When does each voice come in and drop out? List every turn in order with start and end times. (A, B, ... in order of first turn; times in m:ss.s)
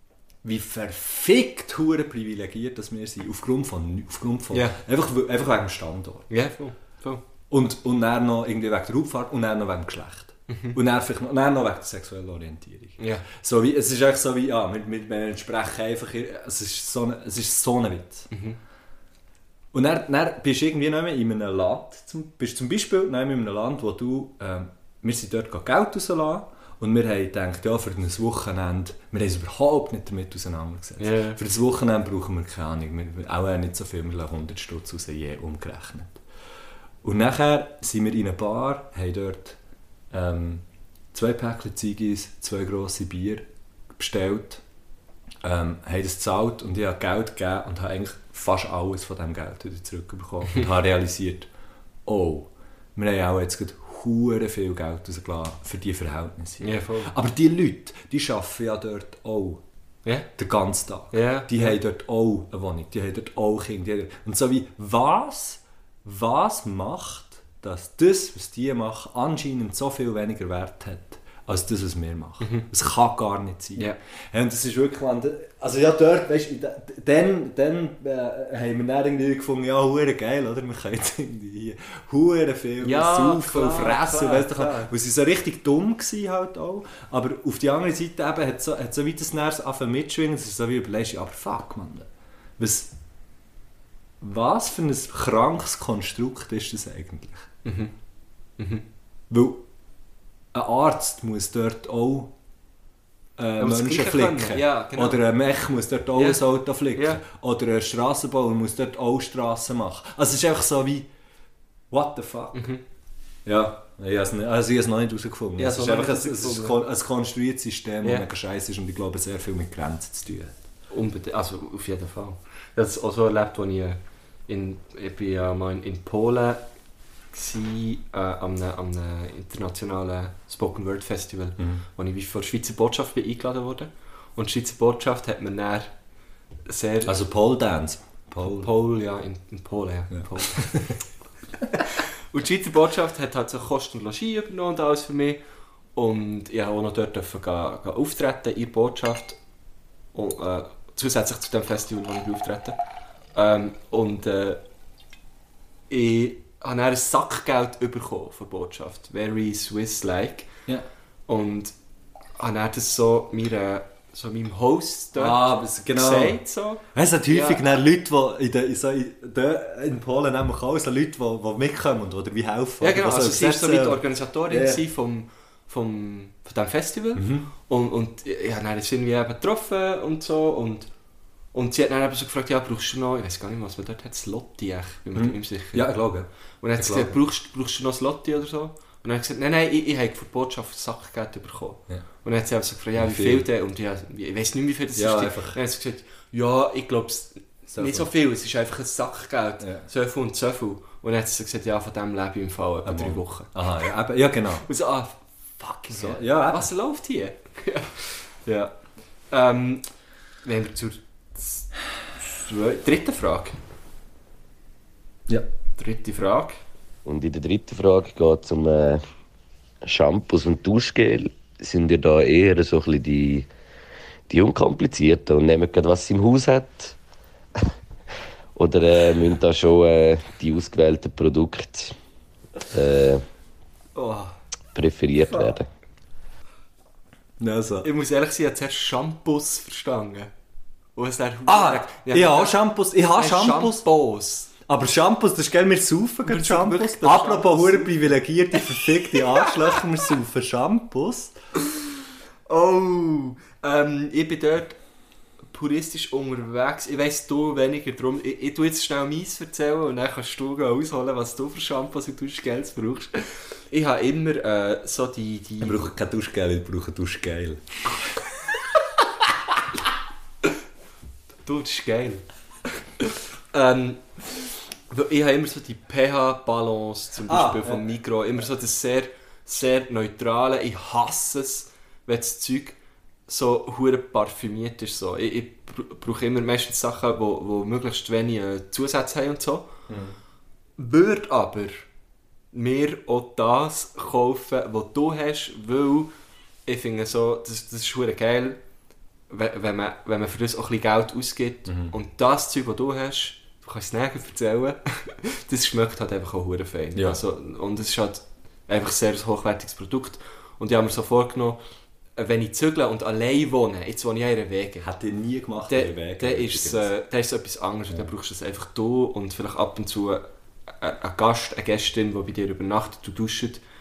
0:00.4-0:06.3 A
0:04.5-0:04.8 B
0:06.3-0:07.2 B
0:07.5-0:18.3 A
0:10.5-0:10.8 B
0:13.0-0:13.2 B
0:18.3-0:18.6 B
0:19.7-0:36.2 A
0:31.0-0:31.4 B
0:37.0-0:39.6 A
0:40.1-0:43.4 A
0:43.9-0:44.6 A
0:45.4-0:51.5 A
0:52.0-0:59.6 A
0:56.6-0:57.1 B
1:00.4-1:32.9 A
1:01.1-1:01.8 B
1:12.4-1:12.6 B
1:22.8-1:24.9 B
1:34.2-1:37.5 A
1:37.6-1:37.9 B
1:38.6-1:38.8 B
1:39.3-1:39.6 A
1:40.5-1:42.3 A
1:43.4-1:51.1 A
1:43.6-1:45.2 B
1:46.1-1:47.2 B
1:51.9-1:52.6 A
1:52.5-1:52.8 B
1:53.4-2:00.6 A
1:55.6-1:56.8 B
2:00.9-2:06.6 B
2:07.3-2:15.9 B
2:11.6-2:11.8 A
2:16.6-2:17.1 B
2:17.0-2:18.7 A
2:18.4-2:20.9 B
2:20.1-2:21.0 A
2:21.9-2:25.4 B
2:25.9-2:29.4 B
2:30.1-2:32.8 B
2:33.3-2:34.6 B
2:35.9-2:40.5 B
2:41.3-2:41.7 B
2:42.4-2:47.6 B
2:45.1-2:46.4 A
2:46.9-2:54.8 A
2:52.8-3:00.9 B
2:57.2-2:57.5 A
3:01.5-3:05.9 B
3:05.1-3:07.2 A
3:06.6-3:23.5 B
3:13.0-3:13.4 A
3:15.0-3:15.6 A
3:17.7-3:18.1 A
3:19.6-3:19.9 A
3:22.8-3:24.7 A
3:24.7-3:25.2 B
3:25.6-3:26.7 A
3:25.7-3:28.8 B
3:29.3-3:29.8 B
3:30.4-3:31.7 B
3:32.2-3:33.6 B
3:35.8-3:36.6 B
3:37.0-3:39.0 C
3:39.8-3:43.5 C
3:44.3-3:47.0 C
3:48.5-3:51.9 C
3:52.7-3:53.2 C
3:54.0-3:54.3 B
3:54.7-3:55.6 C
3:57.4-3:57.9 A
3:57.8-4:00.3 B
4:01.0-4:02.6 B
4:01.4-4:03.9 A
4:03.1-4:04.5 B
4:04.6-4:11.4 A
4:06.2-4:08.0 B
4:12.5-4:14.8 B
4:15.5-4:25.9 B
4:25.6-4:27.8 A
4:31.4-4:32.2 B
4:33.0-4:42.8 B
4:37.3-4:37.8 A
4:43.3-4:49.7 B
4:49.9-4:50.2 A
4:50.8-4:51.8 B
4:52.5-4:56.1 B
4:56.6-4:58.6 B
4:59.3-5:11.6 B
5:01.7-5:01.9 A
5:12.2-5:14.9 B
5:14.8-5:16.9 A
5:15.7-5:20.2 B
5:20.8-5:23.6 B